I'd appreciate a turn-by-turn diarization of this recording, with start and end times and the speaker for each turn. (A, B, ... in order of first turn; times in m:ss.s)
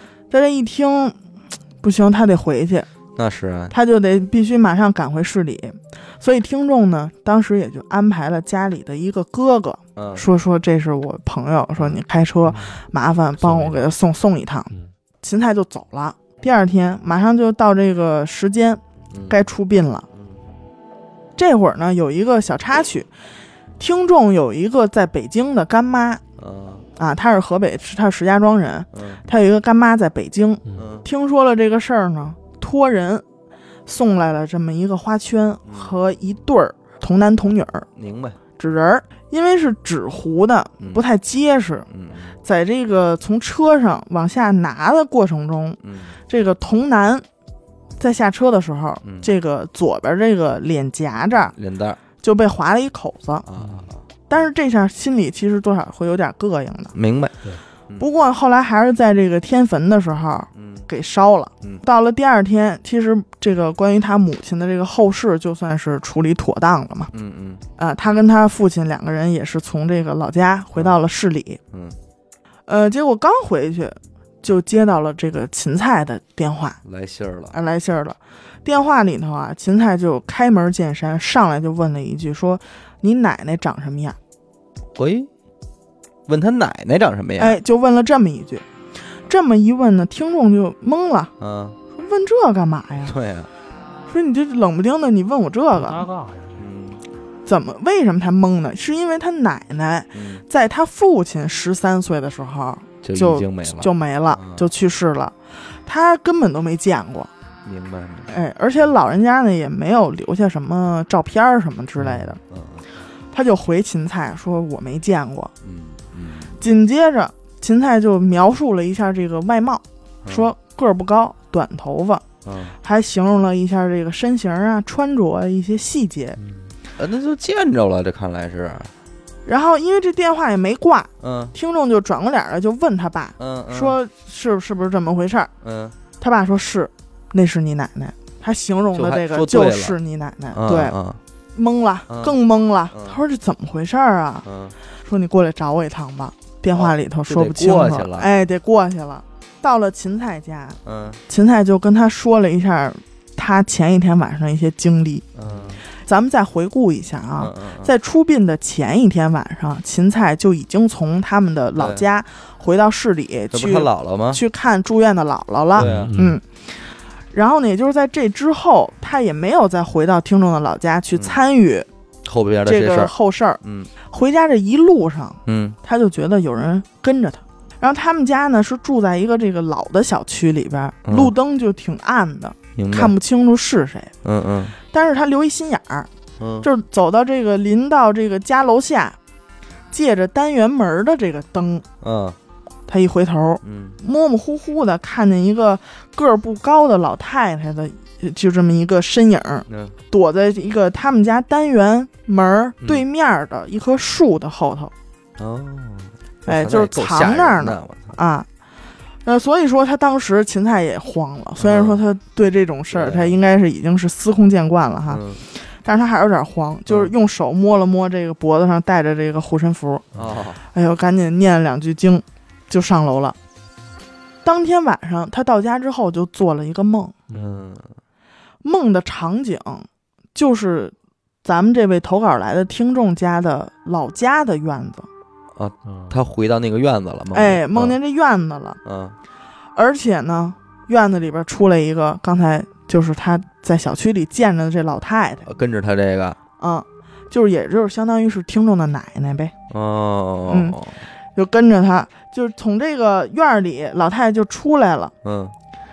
0:00.3-0:01.2 A
0:01.8-0:02.9 A
0:03.2-0:03.7 B
0:03.7-0:20.1 A
0:10.0-0:10.2 B
0:11.8-0:12.0 B
0:12.5-0:12.7 C
0:13.4-0:13.8 C
0:19.1-0:19.4 B
0:21.4-0:23.1 A
0:23.8-0:26.2 A
0:26.4-0:26.9 B
0:27.0-0:33.2 A
0:28.9-0:29.2 B
0:30.7-0:31.0 B
0:33.8-0:37.9 A
0:35.6-0:36.0 B
0:38.0-0:38.4 B
0:38.6-0:41.9 A
0:41.9-0:42.4 B
0:42.4-0:47.2 A
0:45.8-0:46.2 B
0:48.0-0:51.6 A
0:49.0-0:49.3 B
0:51.6-0:52.0 B
0:52.2-0:53.5 A
0:53.4-0:54.0 B
0:53.6-0:53.9 C
0:54.3-0:56.9 A
0:56.9-0:57.4 B
0:58.0-1:07.1 A
1:00.5-1:00.9 B
1:07.1-1:07.6 B
1:07.8-1:11.6 A
1:11.7-1:12.0 B
1:12.7-1:16.8 A
1:16.8-1:17.5 B
1:17.5-1:24.2 A
1:24.9-1:25.3 B
1:26.3-1:27.6 B
1:27.4-1:28.6 A
1:29.2-1:31.3 A
1:31.4-1:31.8 B
1:31.9-1:33.1 A
1:33.0-1:33.5 B
1:34.1-1:36.1 A
1:35.7-1:36.6 C
1:36.6-1:37.0 B
1:37.4-1:47.3 A
1:40.1-1:40.4 B
1:43.0-1:44.7 B
1:47.6-1:48.3 B
1:48.3-1:52.4 A
1:52.0-1:52.3 C
1:52.5-1:52.9 B
1:53.3-1:55.5 A
1:55.6-1:56.6 B
1:56.6-2:02.2 A
2:00.2-2:00.5 B
2:02.4-2:02.8 B
2:02.8-2:06.4 A
2:06.4-2:06.7 C
2:07.0-2:08.9 B
2:09.4-2:15.5 A
2:11.2-2:11.5 B
2:13.4-2:14.0 B
2:15.6-2:16.0 B
2:16.2-2:20.9 A
2:18.9-2:20.0 B
2:20.5-2:21.2 B
2:21.5-2:24.4 A
2:22.1-2:22.4 B
2:22.9-2:23.2 B
2:24.4-2:24.8 B
2:25.0-2:35.3 A
2:26.7-2:28.3 B
2:30.8-2:31.2 B
2:35.3-2:35.8 B
2:35.9-2:46.8 A
2:37.4-2:37.9 B
2:41.7-2:42.1 B
2:43.5-2:44.4 B
2:45.8-2:46.2 B
2:45.8-2:46.4 C
2:47.3-2:51.9 A
2:51.1-2:51.4 B
2:52.2-2:53.9 B
2:52.6-3:04.1 A
2:55.4-2:55.8 B
3:01.0-3:01.3 B
3:02.7-3:03.1 B
3:04.2-3:04.8 B
3:04.8-3:06.1 A
3:06.4-3:06.7 B
3:06.6-3:09.2 A
3:09.9-3:11.8 A
3:12.0-3:12.4 B
3:12.9-3:24.9 A
3:13.6-3:14.0 B
3:19.7-3:20.0 B
3:22.8-3:23.0 B
3:25.4-3:28.2 B
3:26.5-3:28.5 A
3:29.2-3:43.4 A
3:31.6-3:32.0 B
3:32.9-3:33.4 B
3:35.1-3:35.4 B
3:36.9-3:37.1 B
3:40.1-3:40.6 B
3:44.4-3:47.1 A
3:47.3-3:47.6 C
3:47.3-3:47.9 B
3:48.6-3:55.1 A
3:55.5-3:58.0 B
3:55.8-3:56.2 C
3:57.3-3:58.8 A
3:58.8-3:59.2 B
3:59.7-4:05.5 A
4:05.4-4:06.4 B
4:06.6-4:09.5 A
4:09.7-4:11.0 B
4:10.5-4:10.8 A
4:11.3-4:15.1 A
4:15.2-4:15.6 B